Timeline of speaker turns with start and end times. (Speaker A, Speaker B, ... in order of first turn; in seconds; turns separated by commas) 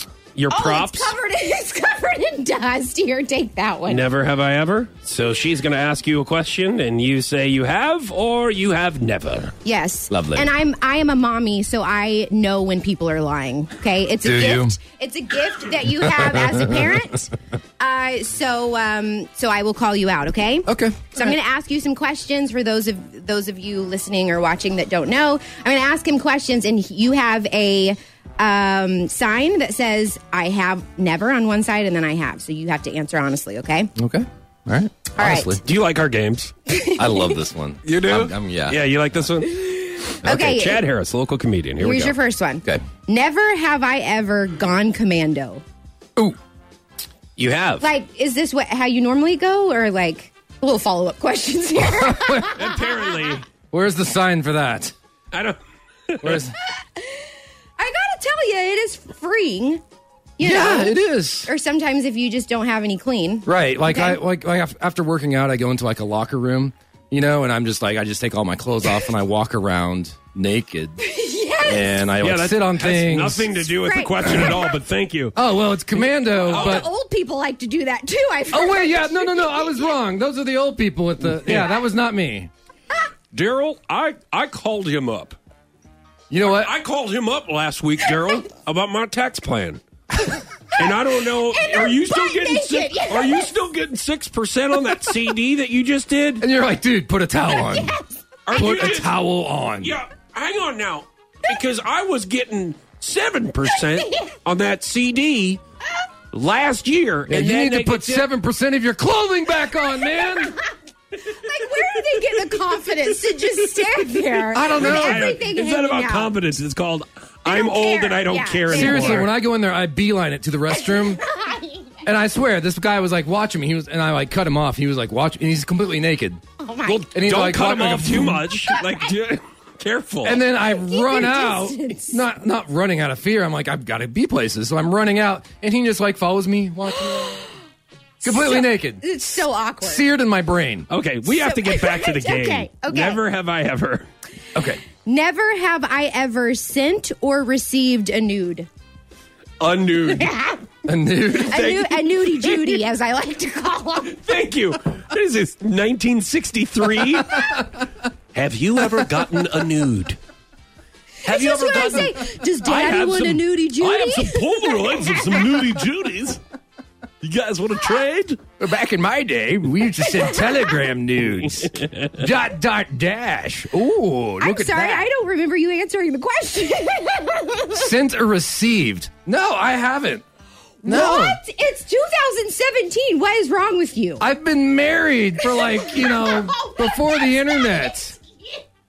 Speaker A: 0.3-1.1, Speaker B: 0.5-4.0, Speaker A: 3.9-9.5, Speaker B: 9.6-33.9, Speaker C: 10.1-10.5, Speaker C: 14.2-14.8, Speaker C: 16.0-17.0, Speaker C: 20.7-21.2, Speaker C: 34.0-35.6, Speaker B: 35.1-35.6, Speaker A: 35.6-36.5, Speaker B: 36.7-37.4, Speaker C: 36.9-38.8, Speaker A: 37.8-42.1, Speaker B: 40.1-40.8, Speaker B: 41.8-45.6, Speaker A: 47.4-47.9, Speaker B: 47.8-53.3, Speaker C: 51.8-52.6, Speaker A: 52.4-53.5, Speaker C: 53.7-54.9, Speaker A: 55.3-55.6, Speaker A: 56.1-56.5, Speaker C: 56.2-56.5, Speaker B: 57.8-59.8, Speaker B: 60.4-64.2, Speaker C: 60.4-61.5, Speaker C: 63.5-71.0, Speaker B: 71.0-72.0, Speaker C: 71.6-73.5, Speaker A: 72.2-75.3, Speaker B: 73.5-74.8, Speaker C: 75.3-76.9, Speaker B: 76.2-80.0, Speaker A: 76.5-76.8, Speaker C: 78.5-82.5, Speaker A: 81.2-81.7, Speaker A: 83.3-85.4, Speaker C: 86.3-86.7, Speaker A: 86.4-89.8, Speaker A: 90.7-96.4, Speaker B: 90.8-93.5, Speaker C: 96.4-97.9, Speaker B: 97.5-98.7, Speaker A: 98.5-99.2, Speaker C: 98.5-100.0, Speaker A: 99.8-105.6, Speaker B: 103.8-104.3, Speaker A: 106.3-108.3, Speaker C: 107.3-110.6, Speaker B: 109.8-116.5, Speaker A: 111.4-112.6, Speaker A: 113.2-119.3, Speaker C: 114.5-115.3, Speaker B: 117.4-119.3, Speaker C: 118.7-121.2, Speaker B: 120.7-122.0, Speaker C: 122.0-128.5, Speaker B: 126.6-127.1, Speaker A: 127.2-130.4, Speaker B: 128.6-129.1, Speaker C: 130.2-137.5, Speaker B: 130.5-132.2, Speaker B: 137.2-137.5, Speaker C: 138.2-139.0, Speaker B: 138.2-140.0, Speaker C: 139.8-140.9, Speaker A: 140.9-144.1, Speaker B: 141.2-143.2, Speaker C: 144.5-144.8, Speaker B: 145.0-148.7, Speaker A: 149.6-150.3, Speaker B: 150.1-150.7, Speaker C: 150.8-151.7, Speaker B: 151.3-154.2, Speaker A: 151.4-152.8, Speaker A: 154.0-157.5, Speaker A: 158.3-160.2, Speaker B: 161.2-165.7, Speaker A: 161.2-166.4, Speaker A: 167.2-168.4, Speaker C: 168.6-175.1, Speaker B: 170.0-170.8, Speaker A: 171.6-172.2, Speaker B: 174.4-177.9, Speaker C: 177.7-180.2, Speaker B: 180.8-184.2, Speaker C: 180.8-181.4, Speaker C: 184.2-188.2, Speaker B: 185.4-188.6